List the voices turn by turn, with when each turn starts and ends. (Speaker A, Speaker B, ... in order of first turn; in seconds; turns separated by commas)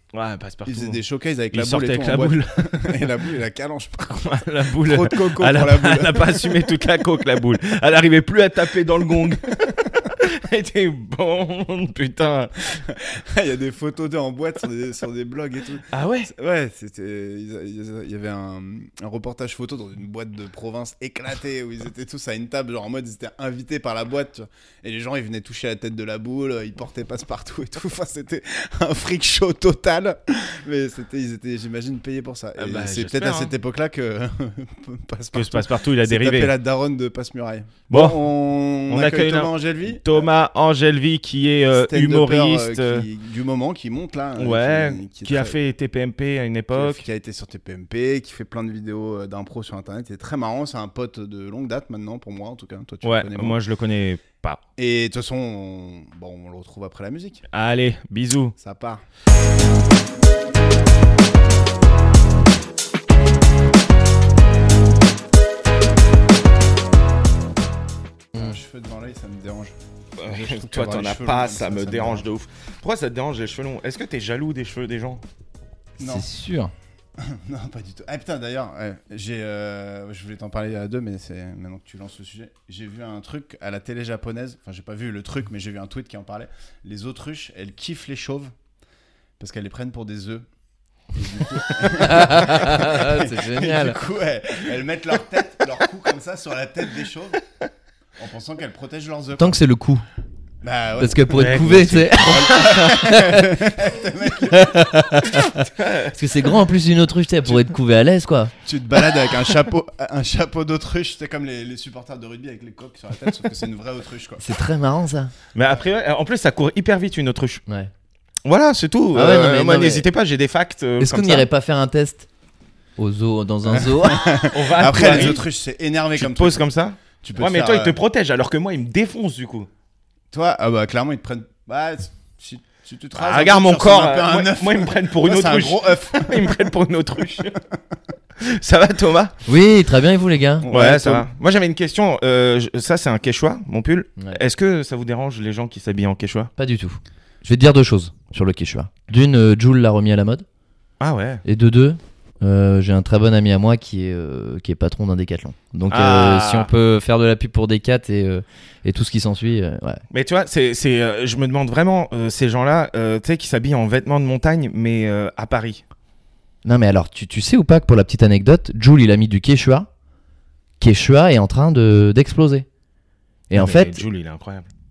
Speaker A: 0.1-1.0, Speaker B: 0.7-6.6, Speaker A: 1.5-3.1, Speaker A: 4.2-12.8, Speaker B: 12.9-40.2, Speaker A: 15.9-16.3, Speaker A: 32.6-33.5, Speaker A: 35.3-36.5, Speaker A: 37.9-38.2, Speaker A: 38.9-43.1, Speaker B: 41.7-45.6, Speaker A: 44.4-47.0, Speaker B: 46.7-53.6, Speaker A: 53.0-54.6, Speaker B: 54.8-57.4, Speaker A: 57.5-58.5, Speaker B: 58.6-59.0, Speaker B: 68.3-72.3, Speaker A: 70.2-75.2, Speaker B: 76.0-76.3, Speaker C: 76.0-76.7, Speaker B: 77.2-88.5, Speaker B: 89.4-90.5, Speaker B: 91.1-97.4, Speaker C: 91.8-94.0, Speaker B: 98.2-99.6, Speaker C: 99.4-100.0, Speaker B: 100.6-105.0, Speaker C: 101.0-108.5, Speaker A: 101.3-102.8, Speaker A: 105.4-106.2, Speaker B: 108.6-114.5, Speaker C: 114.4-115.3, Speaker A: 115.5-117.6, Speaker A: 118.5-121.5, Speaker C: 119.1-120.1, Speaker C: 121.0-122.3, Speaker C: 123.0-124.4, Speaker B: 123.7-126.6, Speaker A: 124.5-125.5, Speaker C: 125.0-125.3, Speaker A: 126.2-129.7, Speaker B: 127.2-128.0, Speaker B: 130.3-136.7, Speaker A: 133.1-137.6, Speaker A: 138.4-139.3, Speaker C: 139.5-140.7, Speaker B: 140.6-141.3, Speaker A: 140.7-146.5, Speaker C: 146.6-150.4, Speaker A: 151.0-151.4, Speaker C: 151.4-160.0, Speaker A: 155.9-156.7, Speaker A: 160.1-165.8, Speaker C: 166.7-169.9, Speaker C: 170.8-172.7, Speaker C: 173.5-174.0, Speaker A: 173.6-174.7